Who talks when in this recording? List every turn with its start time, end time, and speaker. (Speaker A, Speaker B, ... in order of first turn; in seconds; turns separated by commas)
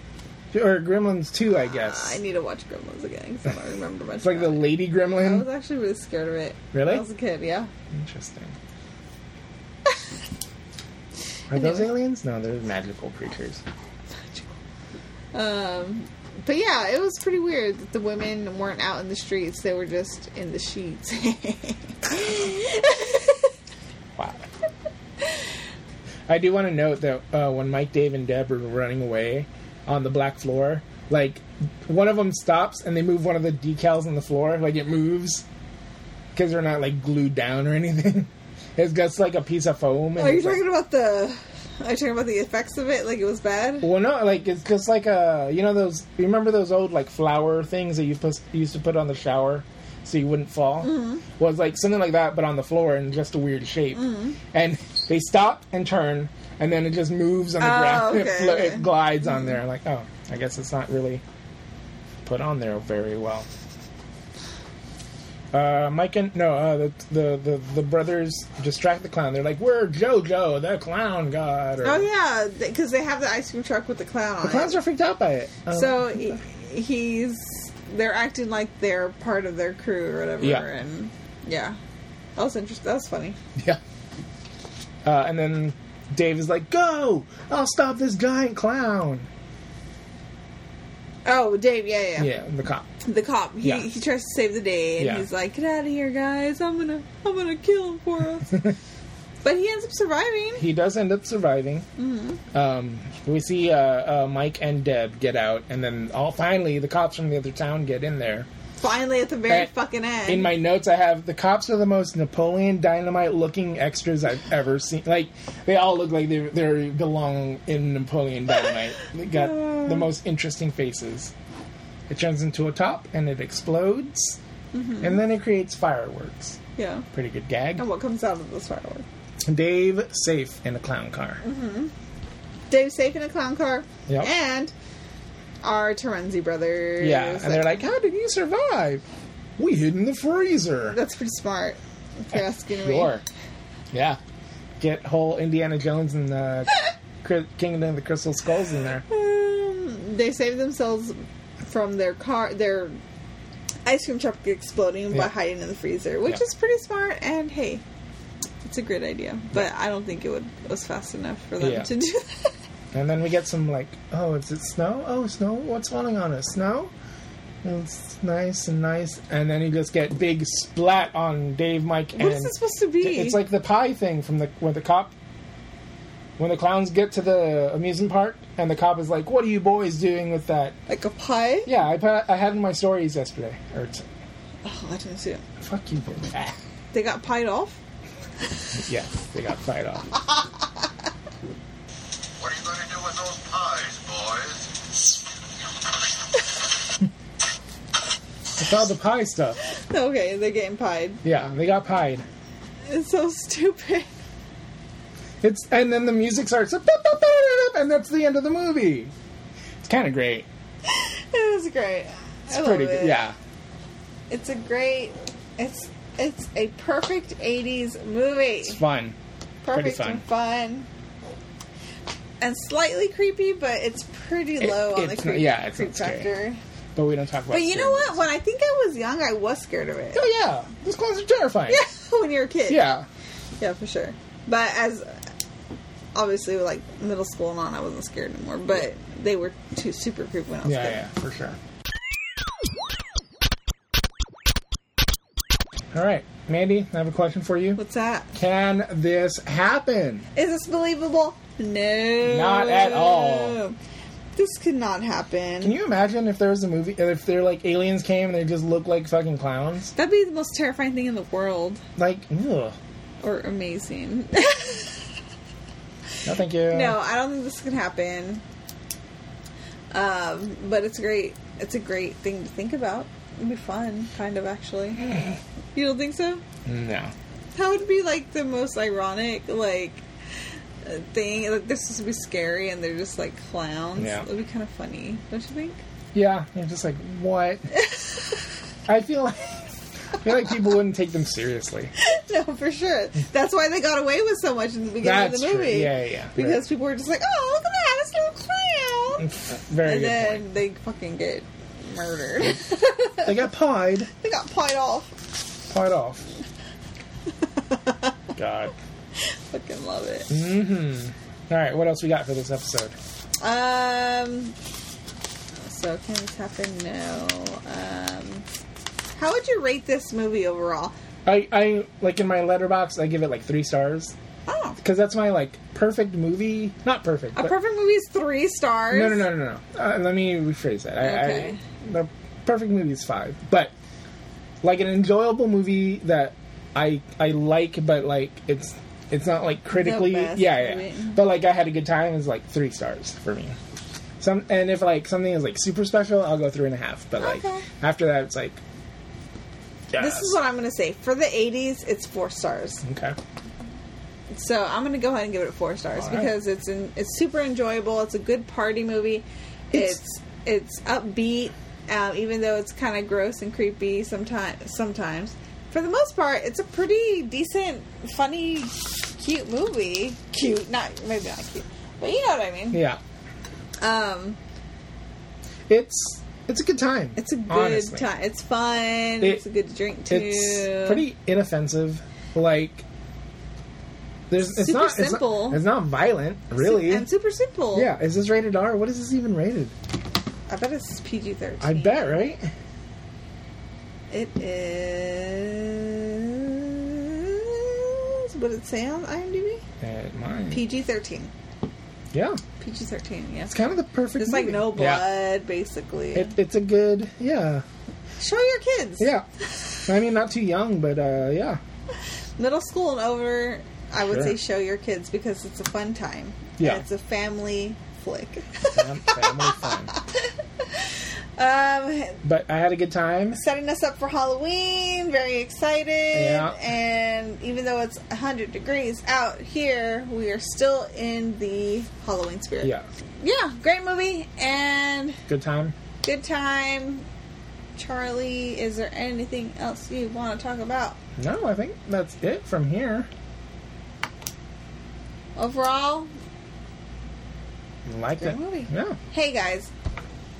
Speaker A: 0.5-2.2, Speaker B: 1.8-7.7, Speaker A: 4.2-5.5, Speaker A: 6.7-7.0, Speaker A: 7.9-8.6, Speaker A: 11.5-13.6, Speaker B: 14.1-14.5, Speaker B: 15.3-23.5, Speaker A: 24.2-24.5, Speaker A: 26.3-35.4, Speaker A: 36.3-40.6, Speaker B: 40.2-43.9, Speaker A: 43.8-61.2, Speaker B: 50.8-51.2, Speaker B: 53.9-54.4, Speaker B: 57.6-58.9, Speaker A: 62.2-63.5, Speaker A: 65.5-72.1, Speaker B: 71.8-74.8, Speaker A: 74.4-76.4, Speaker B: 75.7-81.8, Speaker B: 82.4-83.4, Speaker A: 85.0-89.3, Speaker B: 91.2-92.3, Speaker A: 92.2-92.9, Speaker B: 93.0-98.6, Speaker A: 95.0-95.3, Speaker B: 99.4-100.7, Speaker A: 100.6-101.9, Speaker B: 102.0-102.4, Speaker A: 102.5-108.5, Speaker B: 108.8-110.5, Speaker A: 110.3-121.3, Speaker A: 122.1-124.4, Speaker B: 124.7-125.2, Speaker A: 125.0-126.6, Speaker B: 126.8-127.1, Speaker A: 127.1-127.8, Speaker B: 127.8-129.1, Speaker A: 129.4-131.4, Speaker B: 131.4-131.9, Speaker B: 132.7-134.7, Speaker B: 135.6-137.8, Speaker A: 137.0-139.0, Speaker A: 139.6-141.0, Speaker B: 140.9-143.2, Speaker A: 142.3-143.2, Speaker A: 143.9-144.2, Speaker A: 144.8-149.0, Speaker B: 149.1-153.0, Speaker B: 153.8-157.8, Speaker B: 158.6-162.5, Speaker A: 161.6-161.9, Speaker A: 162.9-166.9, Speaker A: 167.6-175.1, Speaker B: 172.2-173.4, Speaker A: 176.4-180.8, Speaker B: 180.9-181.7, Speaker A: 181.7-184.1, Speaker B: 184.6-185.4, Speaker A: 185.6-186.6, Speaker B: 186.9-187.8, Speaker A: 188.8-190.1, Speaker C: 192.4-194.6, Speaker A: 198.6-199.6, Speaker B: 199.6-201.2, Speaker A: 201.2-202.2, Speaker B: 202.9-204.1, Speaker A: 205.4-209.1, Speaker A: 209.8-210.5, Speaker B: 210.9-213.2, Speaker A: 212.5-213.4, Speaker B: 214.3-218.8, Speaker A: 218.7-219.2, Speaker B: 219.6-220.9, Speaker A: 219.7-220.2, Speaker B: 222.4-226.6, Speaker A: 224.6-226.3, Speaker A: 226.9-228.2, Speaker B: 227.5-230.2, Speaker A: 230.1-231.8, Speaker B: 231.7-232.8, Speaker A: 232.7-233.1, Speaker B: 233.6-235.2, Speaker B: 236.2-241.0, Speaker A: 240.7-241.6, Speaker A: 245.9-247.8, Speaker B: 247.8-248.3, Speaker A: 248.3-250.2, Speaker B: 250.3-253.8, Speaker A: 252.2-253.6, Speaker B: 254.4-255.8, Speaker A: 255.6-259.9, Speaker B: 259.9-261.8, Speaker A: 262.0-262.8, Speaker B: 263.2-265.0, Speaker A: 266.2-267.0, Speaker B: 266.7-268.4, Speaker B: 269.9-275.1, Speaker B: 275.8-276.4, Speaker A: 276.6-277.1, Speaker B: 277.6-280.0, Speaker B: 280.8-285.8, Speaker A: 284.0-284.2, Speaker A: 286.1-287.6, Speaker A: 288.9-289.7, Speaker A: 290.2-291.9, Speaker B: 292.0-299.3, Speaker A: 295.0-296.6, Speaker A: 299.2-300.5, Speaker B: 299.8-303.3, Speaker A: 303.2-304.1, Speaker B: 304.2-305.1, Speaker A: 305.7-306.3, Speaker A: 308.4-308.7, Speaker B: 309.2-310.4, Speaker A: 310.3-313.0, Speaker B: 313.4-314.6, Speaker B: 315.6-318.5, Speaker B: 319.2-320.9, Speaker A: 321.3-324.1, Speaker B: 324.5-324.8, Speaker A: 324.8-327.5, Speaker B: 327.4-329.3, Speaker A: 328.9-333.7, Speaker B: 331.0-331.6, Speaker A: 334.6-343.6, Speaker B: 339.7-341.2, Speaker A: 344.2-348.6, Speaker B: 347.2-347.7, Speaker A: 349.9-350.4, Speaker B: 350.0-352.8, Speaker A: 352.8-353.2, Speaker B: 354.3-372.8, Speaker A: 356.0-356.3, Speaker A: 372.7-373.0, Speaker B: 373.8-374.4, Speaker A: 375.7-378.1, Speaker B: 377.2-381.1, Speaker A: 380.1-382.8, Speaker A: 384.3-387.1, Speaker B: 384.4-385.6, Speaker B: 386.6-387.9, Speaker A: 387.7-389.8, Speaker B: 390.5-392.2, Speaker A: 391.6-392.5, Speaker B: 394.1-399.6, Speaker A: 399.8-400.6, Speaker B: 400.5-401.3, Speaker A: 402.1-402.4, Speaker B: 402.6-403.5, Speaker A: 403.5-405.0, Speaker B: 404.2-406.3, Speaker A: 406.1-407.6, Speaker B: 408.2-409.1, Speaker A: 409.0-409.3, Speaker A: 409.9-411.6, Speaker B: 412.4-419.7, Speaker A: 414.0-414.3, Speaker A: 416.6-416.8, Speaker A: 418.8-419.9, Speaker B: 421.4-422.2, Speaker A: 422.2-423.4, Speaker B: 423.4-435.2, Speaker A: 426.1-426.6, Speaker A: 435.3-435.8, Speaker B: 436.0-437.1, Speaker B: 437.8-441.0, Speaker A: 441.2-443.1, Speaker B: 445.4-446.1, Speaker A: 447.9-449.0, Speaker B: 448.2-449.7